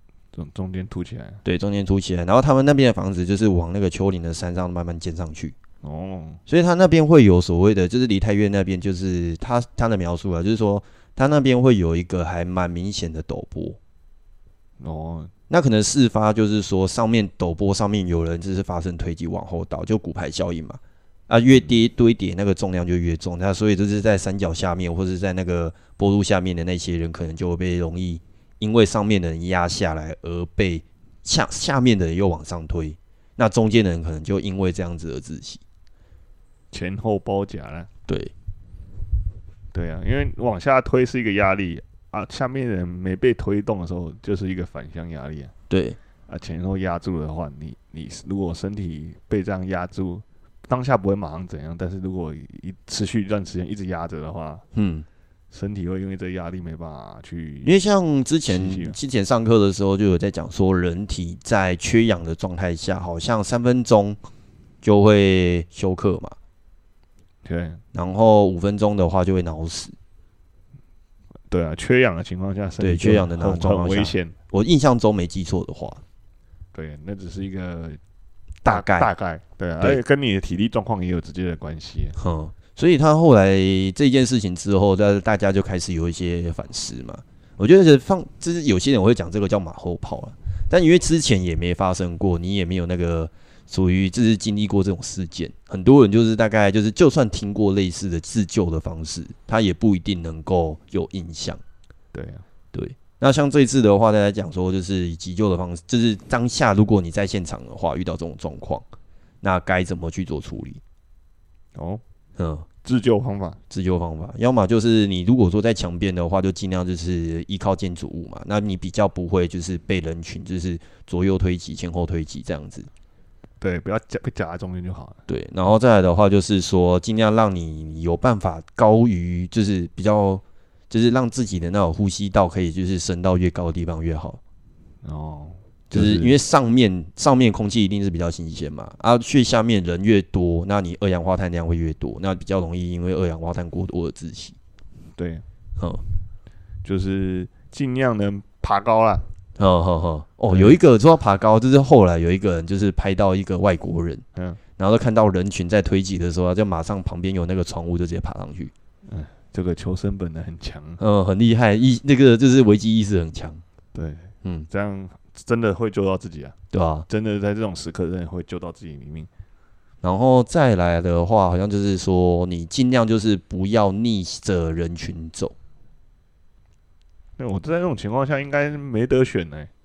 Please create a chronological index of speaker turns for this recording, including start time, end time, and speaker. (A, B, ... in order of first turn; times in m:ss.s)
0:00.3-0:01.4 A
0:01.4-0:05.5 B
0:05.8-0:06.4 A
0:06.5-0:13.8 B
0:14.8-0:15.3 A
0:15.5-0:35.6 B
0:36.7-0:37.9 A
0:38.1-0:38.3 B
0:39.7-0:45.5 A
0:45.7-0:46.0 B
0:46.3-0:54.6 A
0:54.7-0:55.0 B
0:55.5-0:57.7 A
0:57.6-1:04.2 B
0:58.5-0:59.0 A
1:04.8-1:06.4 B
1:07.4-1:07.8 A
1:07.9-1:09.9 B
1:11.5-1:14.3 A
1:12.8-1:16.0 B
1:16.7-1:18.0 A
1:18.6-1:19.1 B
1:18.6-1:22.2 A
1:22.2-1:41.6 B
1:42.1-1:42.4 A
1:42.7-1:48.8 B
1:49.4-1:50.8 B
1:51.7-1:52.0 A
1:52.4-1:52.7 B
1:52.8-1:53.6 A
1:53.7-2:02.9 B
2:03.6-2:05.2 A
2:05.3-2:14.4 B
2:15.0-2:16.3 A
2:15.9-2:24.6 B
2:25.2-2:25.4 A
2:25.8-2:26.0 B
2:26.8-2:29.3 A
2:29.6-2:34.2 B
2:30.5-2:30.8 A
2:34.3-2:34.6 A
2:34.8-2:38.7 B
2:39.0-2:41.0 A
2:41.0-2:43.6 B
2:43.9-2:46.6 A
2:46.7-2:47.1 B
2:47.1-2:49.3 A
2:50.0-2:55.5 B
2:57.4-2:59.7 A